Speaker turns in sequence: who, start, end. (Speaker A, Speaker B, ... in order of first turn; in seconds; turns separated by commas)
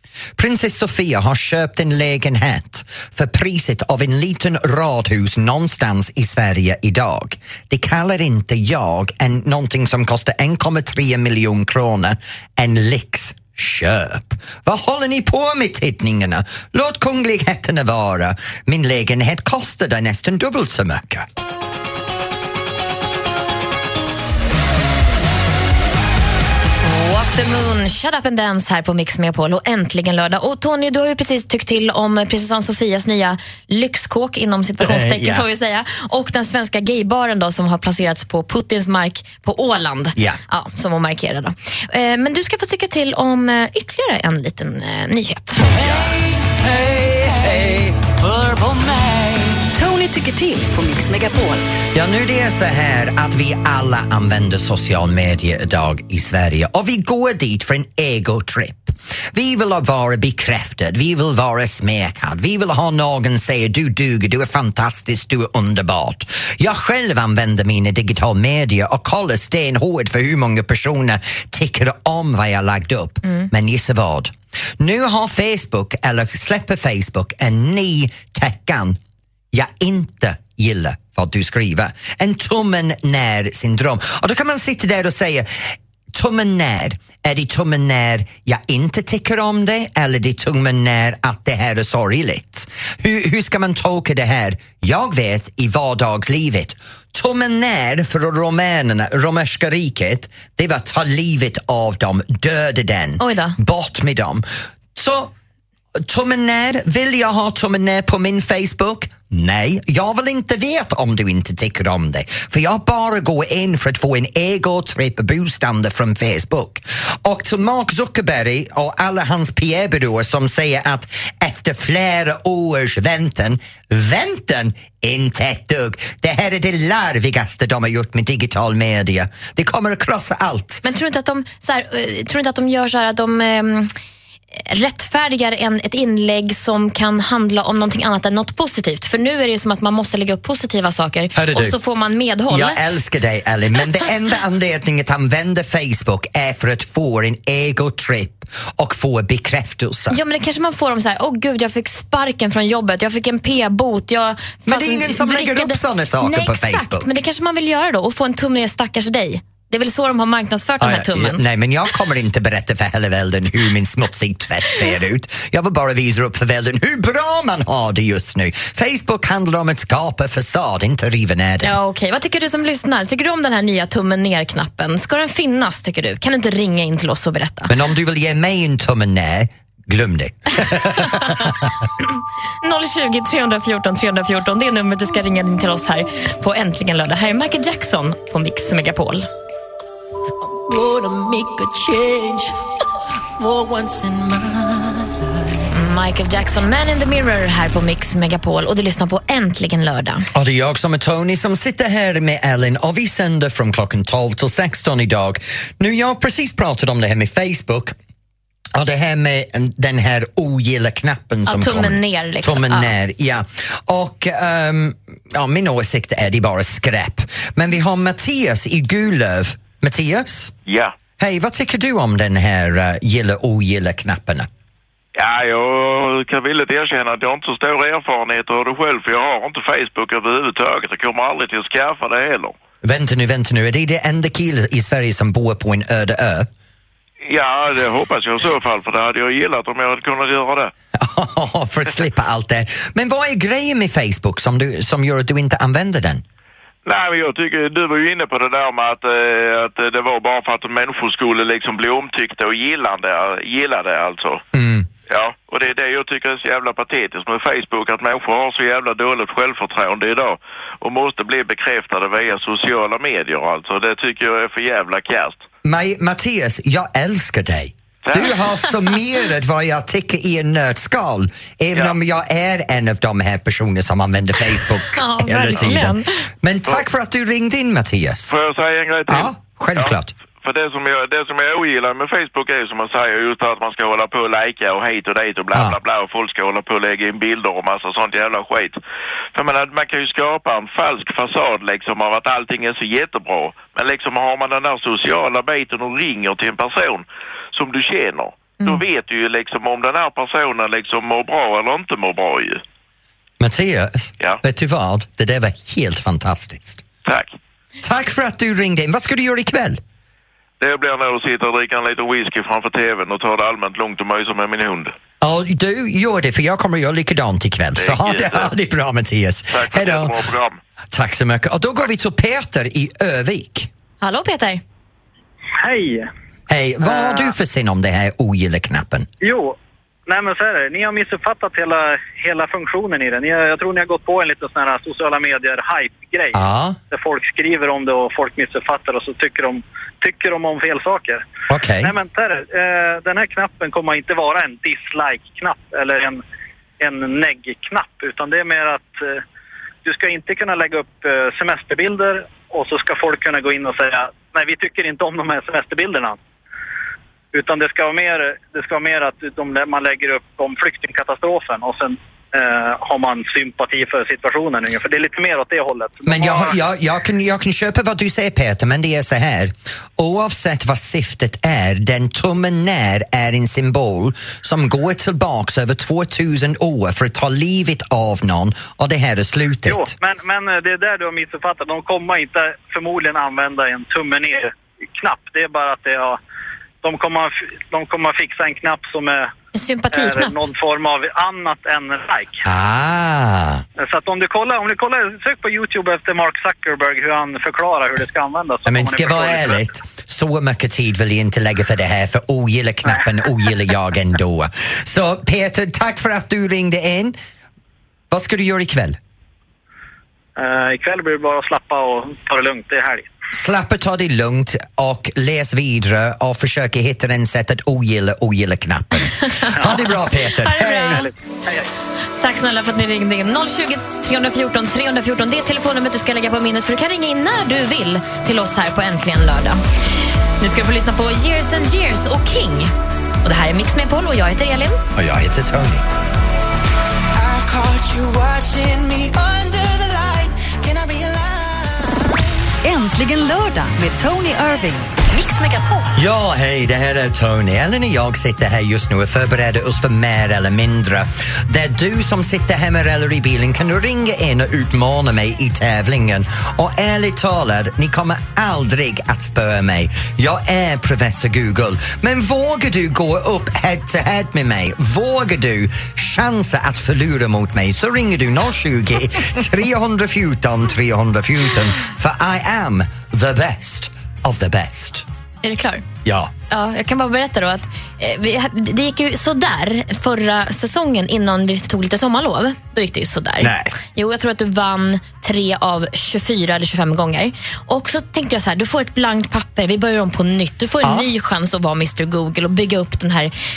Speaker A: 0.4-21.3, Speaker B: 26.8-45.7, Speaker A: 34.8-35.4, Speaker A: 45.6-48.0, Speaker C: 48.1-51.7, Speaker A: 51.9-79.0, Speaker A: 79.5-105.3, Speaker B: 103.2-103.5, Speaker A: 106.0-130.8, Speaker B: 130.8-133.9, Speaker B: 134.5-142.8, Speaker A: 141.3-141.8, Speaker A: 142.5-150.2, Speaker B: 150.1-161.4, Speaker A: 154.7-157.1, Speaker A: 160.8-171.7, Speaker B: 171.6-177.7, Speaker A: 177.7-181.6, Speaker B: 181.0-181.5, Speaker B: 182.6-189.3, Speaker D: 190.7-192.5, Speaker D: 193.4-195.1, Speaker B: 195.7-200.3, Speaker A: 200.3-207.9, Speaker A: 208.7-220.5, Speaker B: 211.5-212.9, Speaker E: 220.7-220.9, Speaker A: 221.2-224.5, Speaker E: 225.2-232.5, Speaker A: 232.8-236.5, Speaker E: 237.3-240.7, Speaker A: 240.9-246.2, Speaker E: 246.8-254.4, Speaker A: 254.5-254.9, Speaker E: 255.1-265.4, Speaker A: 265.6-278.4, Speaker E: 268.1-268.4, Speaker B: 274.9-276.1, Speaker E: 278.3-288.8, Speaker A: 279.1-280.1, Speaker A: 285.5-285.8, Speaker E: 289.3-302.6, Speaker A: 303.4-306.8, Speaker E: 307.0-307.4, Speaker A: 307.8-309.8, Speaker E: 310.6-314.9, Speaker A: 315.2-320.1, Speaker E: 317.8-318.5, Speaker E: 319.5-320.6, Speaker A: 320.9-323.7, Speaker B: 324.0-324.6, Speaker F: 325.6-326.1, Speaker A: 326.5-329.1, Speaker F: 326.8-327.3, Speaker F: 329.2-336.4, Speaker A: 336.3-336.8, Speaker F: 336.9-341.2, Speaker A: 341.5-341.9, Speaker F: 341.8-346.2, Speaker F: 346.8-349.2, Speaker F: 349.8-356.2, Speaker F: 357.3-366.6, Speaker A: 366.1-379.9, Speaker F: 379.6-386.2, Speaker F: 386.8-389.3, Speaker B: 389.5-390.4, Speaker F: 389.9-392.4, Speaker A: 392.4-393.6, Speaker F: 393.8-399.6, Speaker A: 398.6-407.1, Speaker A: 408.1-409.0, Speaker F: 410.4-413.1, Speaker A: 413.3-421.1, Speaker F: 419.6-419.9, Speaker B: 420.4-421.1, Speaker F: 420.5-421.6, Speaker B: 422.2-432.7, Speaker B: 433.2-434.8, Speaker A: 434.9-435.8, Speaker D: 437.1-442.0, Speaker C: 442.6-445.9, Speaker A: 445.9-475.0, Speaker B: 475.4-475.8, Speaker A: 476.0-476.3, Speaker B: 476.5-493.3, Speaker A: 483.4-483.7, Speaker A: 490.8-491.1